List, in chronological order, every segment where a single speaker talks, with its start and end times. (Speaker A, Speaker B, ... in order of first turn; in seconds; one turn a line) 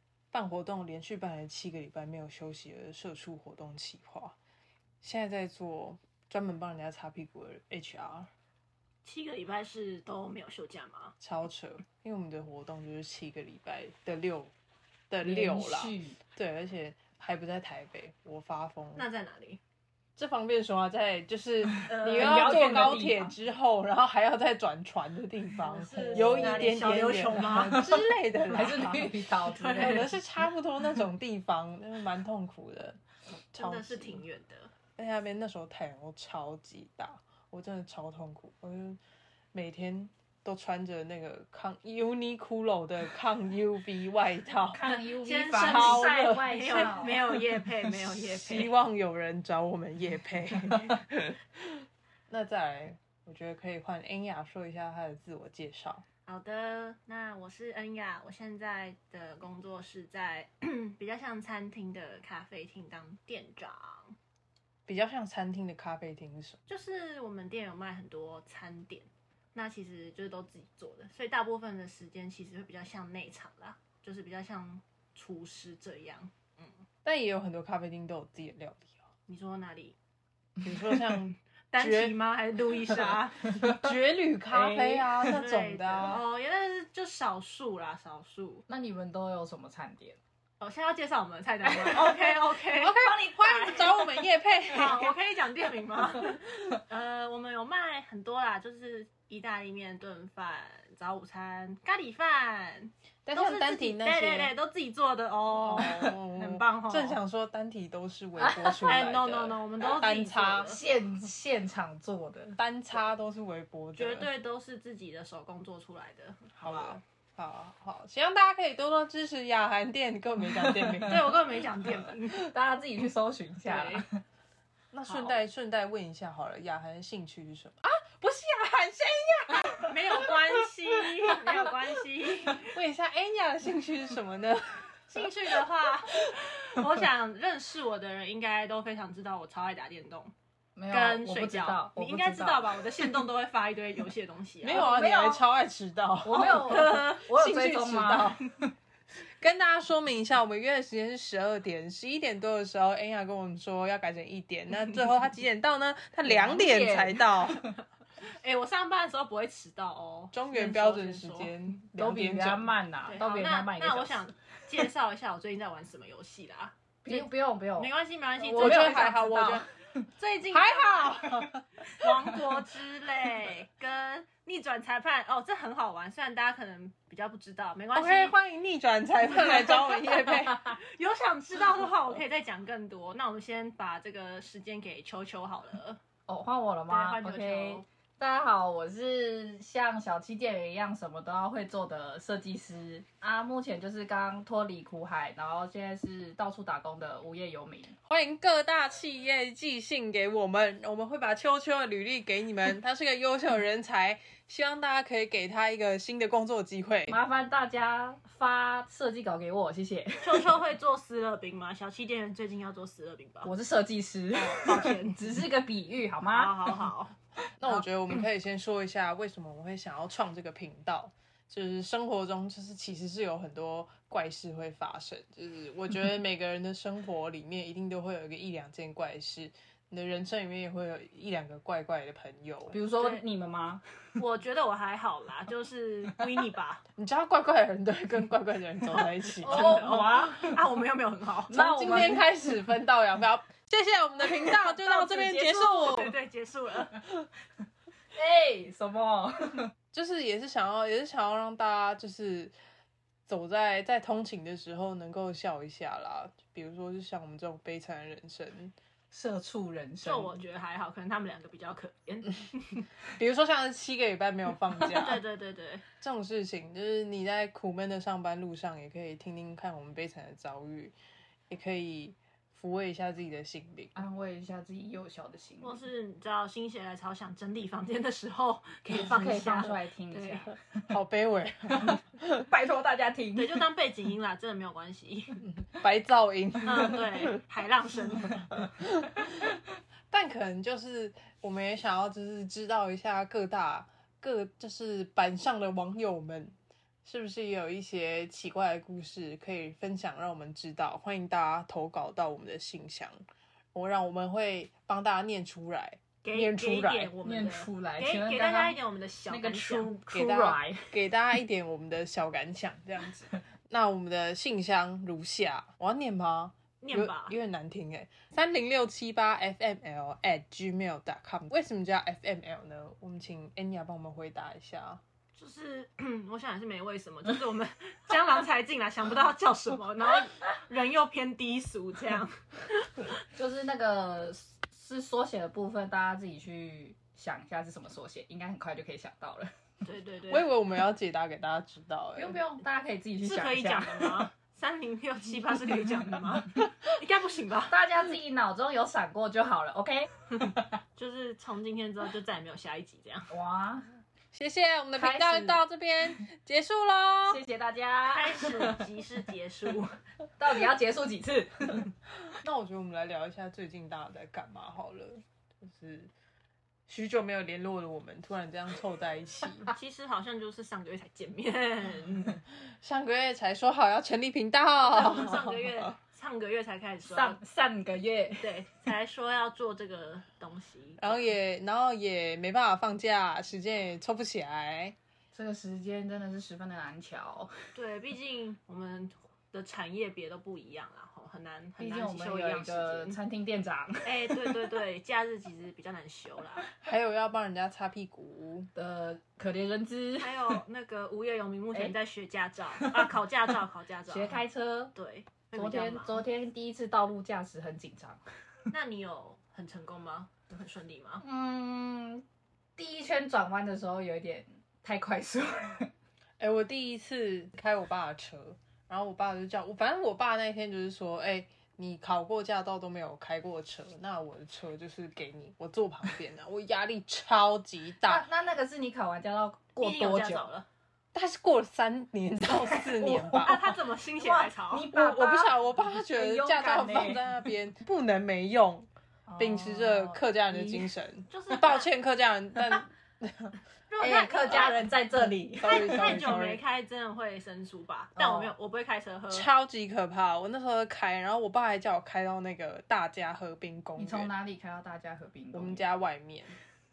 Speaker A: 0.3-4.3
Speaker A: 5.0-8.3
Speaker B: 9.1-11.1
Speaker A: 11.2-14.5
Speaker A: 15.1-19.1
Speaker C: 15.2-16.2
Speaker B: 18.9-19.6
Speaker A: 20.2-33.0
Speaker B: 21.8-23.0
Speaker C: 22.1-23.3
Speaker C: 25.6-27.9
Speaker B: 25.9-27.9
Speaker C: 28.5-30.1
Speaker B: 29.4-30.1
Speaker A: 33.5-34.2
Speaker B: 33.5-34.7
Speaker A: 35.0-39.0
Speaker A: 39.5-44.8
Speaker C: 44.7-47.2
Speaker B: 45.0-48.7
Speaker A: 45.5-51.4
Speaker A: 52.3-56.0
Speaker B: 56.3-64.2
Speaker A: 64.9-66.6
Speaker B: 66.7-76.8
Speaker A: 77.0-78.9
Speaker B: 79.3-80.0
Speaker A: 80.6-82.2
Speaker B: 81.7-83.5
Speaker A: 83.5-86.2
Speaker C: 84.5-85.3
Speaker B: 85.2-88.7
Speaker C: 88.7-90.2
Speaker B: 90.6-94.0
Speaker C: 91.6-92.4
Speaker A: 92.8-95.2
Speaker C: 93.0-94.1
Speaker B: 94.7-107.2
Speaker A: 103.2-104.5
Speaker A: 105.5-110.7
Speaker C: 108.4-109.1
Speaker B: 108.8-110.8
Speaker C: 110.6-112.6
Speaker A: 112.6-114.3
Speaker B: 114.0-117.0
Speaker A: 116.5-121.7
Speaker B: 121.0-122.5
Speaker C: 122.3-124.2
Speaker B: 123.6-124.0
Speaker A: 124.9-130.3
Speaker B: 125.1-125.4
Speaker B: 129.8-132.8
Speaker A: 132.6-135.3
Speaker B: 135.1-140.3
Speaker C: 140.8-142.9
Speaker B: 140.9-145.4
Speaker A: 144.6-148.5
Speaker C: 144.7-145.4
Speaker C: 146.2-148.4
Speaker B: 146.3-147.3
Speaker A: 149.4-157.7
Speaker C: 156.2-157.5
Speaker B: 158.4-161.6
Speaker A: 160.3-162.7
Speaker C: 161.9-164.8
Speaker B: 163.1-169.4
Speaker C: 167.0-169.7
Speaker A: 168.5-169.7
Speaker B: 170.2-171.3
Speaker A: 170.5-171.6
Speaker B: 171.9-178.3
Speaker A: 177.9-180.7
Speaker B: 179.6-186.0
Speaker C: 186.3-197.9
Speaker B: 186.9-187.8
Speaker A: 198.1-207.2
Speaker C: 207.1-210.5
Speaker B: 210.2-213.5
Speaker C: 213.4-216.7
Speaker B: 214.3-215.4
Speaker B: 216.3-217.2
Speaker A: 217.6-232.8
Speaker C: 232.7-233.8
Speaker B: 233.0-233.2
Speaker B: 234.2-236.8
Speaker A: 237.0-240.0
Speaker B: 238.9-241.6
Speaker C: 239.5-240.6
Speaker C: 241.5-242.5
Speaker A: 241.5-246.1
Speaker C: 244.4-246.2
Speaker B: 245.7-247.0
Speaker C: 248.2-249.7
Speaker A: 249.9-252.5
Speaker A: 253.3-258.8
Speaker C: 259.1-260.4
Speaker B: 260.0-262.9
Speaker A: 263.2-265.2
Speaker B: 264.9-265.8
Speaker A: 266.0-270.9
Speaker A: 271.5-273.9
Speaker C: 273.9-275.8
Speaker B: 275.6-280.5
Speaker C: 278.9-280.9
Speaker A: 280.9-282.4
Speaker C: 281.8-283.7
Speaker B: 283.4-285.4
Speaker A: 285.4-287.3
Speaker B: 286.6-288.5
Speaker A: 290.1-303.2
Speaker A: 303.7-307.1
Speaker B: 306.2-310.0
Speaker C: 307.2-311.0
Speaker A: 310.1-325.0
Speaker B: 316.8-317.4
Speaker B: 325.4-333.1
Speaker C: 333.3-339.5
Speaker B: 339.8-340.5
Speaker A: 340.3-342.4
Speaker C: 342.2-344.3
Speaker B: 343.2-347.8
Speaker C: 347.7-350.6
Speaker B: 351.0-353.3
Speaker C: 353.3-353.9
Speaker A: 354.3-357.4
Speaker C: 354.9-355.6
Speaker C: 357.2-358.9
Speaker B: 358.1-360.0
Speaker C: 360.4-361.9
Speaker A: 362.4-366.1
Speaker A: 366.9-369.7
Speaker B: 369.7-372.4
Speaker A: 372.8-375.9
Speaker B: 374.8-377.4
Speaker C: 377.1-378.5
Speaker B: 378.4-381.4
Speaker A: 381.0-385.0
Speaker C: 385.3-387.5
Speaker B: 387.8-393.2
Speaker C: 391.8-394.5
Speaker B: 394.0-396.7
Speaker A: 396.8-398.7
Speaker C: 398.8-400.6
Speaker B: 400.2-406.2
Speaker C: 402.8-403.1
Speaker C: 404.1-404.9
Speaker C: 405.5-408.2
Speaker B: 408.7-411.2
Speaker C: 411.2-412.2
Speaker C: 412.8-415.9
Speaker A: 416.4-428.2
Speaker C: 428.0-430.5
Speaker B: 429.8-430.7
Speaker A: 431.1-433.6
Speaker C: 432.6-433.6
Speaker B: 433.4-434.9
Speaker C: 434.2-437.3
Speaker A: 434.9-443.6
Speaker C: 439.3-440.8
Speaker B: 441.3-441.9
Speaker B: 443.9-444.9
Speaker C: 444.0-446.2
Speaker A: 444.5-446.6
Speaker B: 445.6-449.5
Speaker A: 448.2-448.5
Speaker A: 449.3-454.3
Speaker C: 454.0-455.8
Speaker A: 455.5-456.6